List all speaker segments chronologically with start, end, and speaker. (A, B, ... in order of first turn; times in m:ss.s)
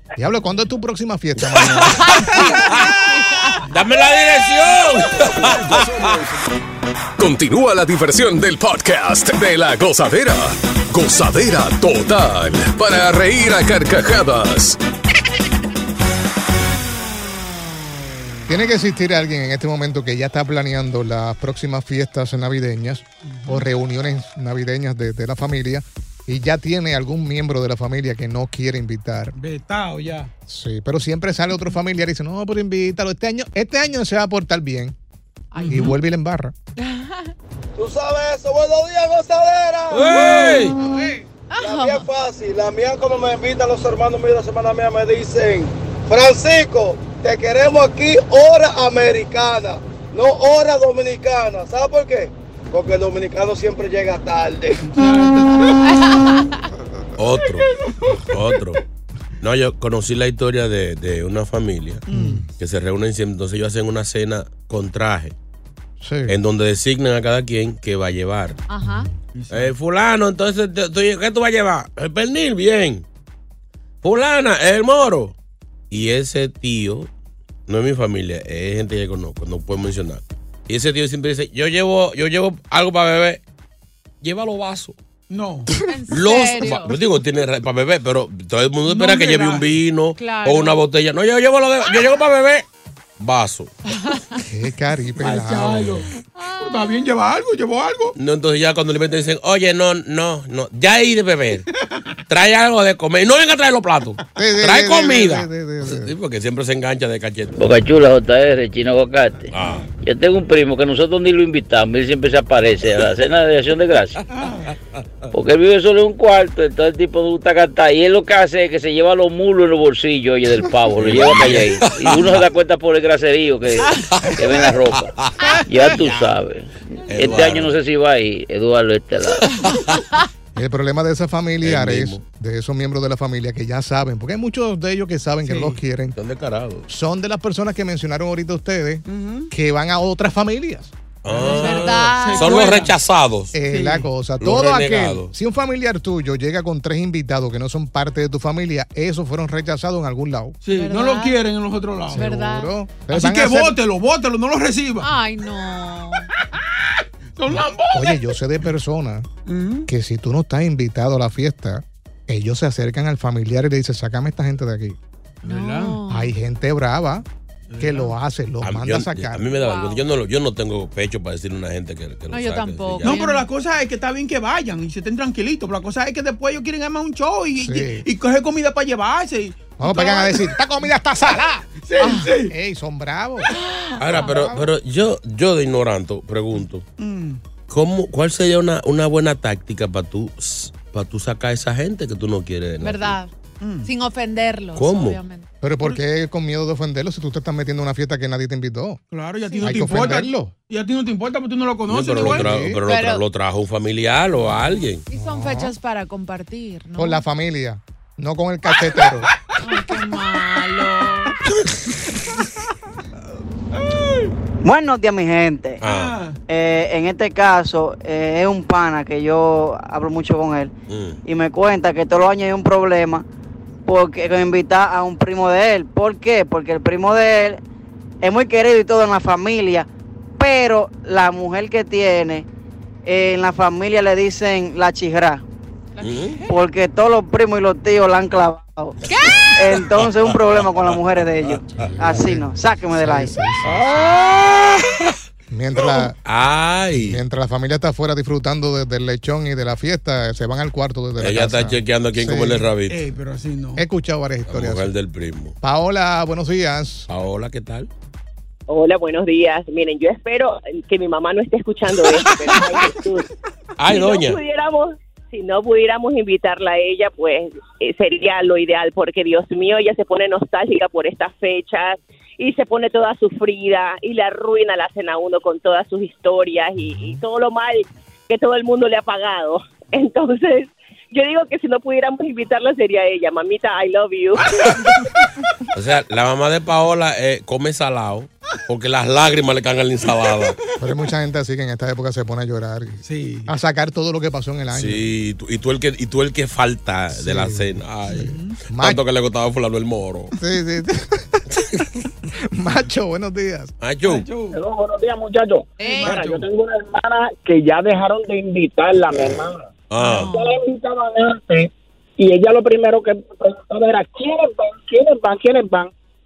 0:00.2-0:02.2 A
0:01.8-0:03.6 B
0:03.7-0:06.2 C
0:07.2-0:14.8 D
0:18.5-0:29.3 A
0:23.3-0:23.6 E
0:29.3-0:30.3 E
0:30.5-0:34.9 A
0:35.5-0:36.0 B
0:35.6-0:36.0 E
0:35.7-0:36.5 A
0:36.8-0:37.3 B
0:37.8-0:40.6 F
0:39.9-0:40.8 C
0:41.5-0:42.1 B
0:41.6-0:54.8 F
0:54.8-0:56.2 E
0:55.7-0:56.7 B
0:57.2-0:57.7 C
0:58.0-0:58.3 A
0:58.3-0:58.8 C
0:59.4-1:02.0 C
1:02.1-1:02.4 E
1:02.1-1:02.5 A
1:02.6-1:05.3 C
1:06.0-1:06.4 A
1:06.3-1:08.6 C
1:08.7-1:09.1 B
1:08.8-1:09.2 A
1:09.3-1:09.7 E
1:09.5-1:13.0 C
1:14.0-1:15.3 C
1:15.9-1:17.1 C
1:17.7-1:23.4 C
1:24.2-1:25.0 C
1:25.3-1:25.7 E
1:25.8-1:27.0 B
1:26.1-1:32.6 C
1:28.8-1:29.8 E
1:30.2-1:30.8 B
1:33.2-1:33.8 C
1:33.9-1:34.4 B
1:34.4-1:36.1 A
1:35.2-1:36.1 E
1:36.3-1:37.1 B
1:36.6-1:38.1 E
1:38.2-1:41.6 C
1:42.3-1:47.6 C
1:44.4-1:46.1 A
1:47.6-1:49.5 G
1:49.5-1:49.9 C
1:50.0-1:54.2 G
1:54.3-1:54.7 E
1:55.3-2:05.1 G
2:01.0-2:02.4 C
2:03.8-2:06.3 C
2:05.7-2:09.5 G
2:07.1-2:07.7 C
2:10.5-2:16.2 A
2:11.6-2:12.2 C
2:15.4-2:15.8 E
2:16.2-2:16.9 C
2:16.9-2:20.9 A
2:19.1-2:19.5 E
2:21.2-2:23.5 C
2:21.3-2:22.9 E
2:21.4-2:22.8 B
2:23.5-2:30.6 A
2:23.7-2:24.1 E
2:24.4-2:25.3 C
2:30.6-2:32.3 E
2:30.7-2:31.4 B
2:32.1-2:32.7 B
2:32.1-2:33.8 A
2:33.1-2:35.1 E
2:35.0-2:36.3 B
2:37.3-2:38.3 E
2:37.6-2:39.3 A
2:39.4-2:39.9 E
2:39.9-2:45.0 A
2:45.4-2:46.0 E
2:45.4-2:46.3 B
2:46.1-2:47.2 A
2:47.7-2:48.1 E
2:47.8-2:49.5 A
2:48.6-2:53.2 C
2:49.5-2:50.0 B
2:52.3-2:53.5 B
2:53.0-3:00.5 E
2:57.6-2:58.1 A
2:59.8-3:01.6 A
3:01.8-3:02.5 E
3:02.0-3:02.3 B
3:02.5-3:03.5 A
3:03.5-3:04.5 B
3:04.0-3:06.8 C
3:04.1-3:04.6 A
3:07.0-3:07.4 E
3:07.7-3:13.2 C
3:12.8-3:13.3 B
3:13.6-3:13.9 E
3:13.8-3:15.4 B
3:14.8-3:15.2 C
3:15.6-3:19.0 A
3:19.1-3:22.5 E
3:19.5-3:20.0 B
3:19.6-3:20.5 A
3:21.9-3:25.0 C
3:22.2-3:22.8 A
3:22.8-3:23.2 B
3:25.1-3:27.2 B
3:25.1-3:25.7 A
3:27.0-3:29.3 A
3:29.6-3:31.4 B
3:34.6-3:35.8 H
3:35.8-3:36.2 C
3:35.8-3:36.4 E
3:36.5-3:40.7 H
3:40.9-3:41.2 C
3:41.2-3:43.2 H
3:43.8-3:47.6 H
3:48.2-3:49.9 H
3:50.4-3:52.4 H
3:53.0-3:55.4 H
3:56.0-3:56.5 B
3:56.0-3:56.4 C
3:56.5-3:59.0 H
3:59.1-3:59.6 B
3:59.6-4:03.3 H
3:59.9-4:01.9 C
4:01.8-4:03.9 A
4:03.6-4:05.0 C
4:05.5-4:06.2 A
4:05.9-4:07.2 C
4:06.9-4:12.7 A
4:11.2-4:13.0 C
4:12.9-4:13.8 E
4:13.8-4:14.9 A
4:14.5-4:15.6 C
4:15.6-4:17.1 A
4:17.1-4:17.9 C
4:18.7-4:23.2 I
4:23.8-4:24.4 C
4:23.9-4:44.5 I
4:36.8-4:37.2 A
4:45.7-4:50.6 C
4:50.4-4:50.7 E
4:50.8-4:55.0 A
4:53.0-4:53.5 E
4:54.7-5:00.3 C
4:57.1-4:59.0 A
4:58.1-4:58.6 E
5:00.4-5:03.7 A
5:03.8-5:04.2 C
5:04.0-5:04.6 E
5:04.5-5:15.9 J
5:05.8-5:06.2 B
5:05.8-5:06.5 E
5:09.9-5:10.3 C
5:10.0-5:10.3 E
5:10.1-5:10.5 B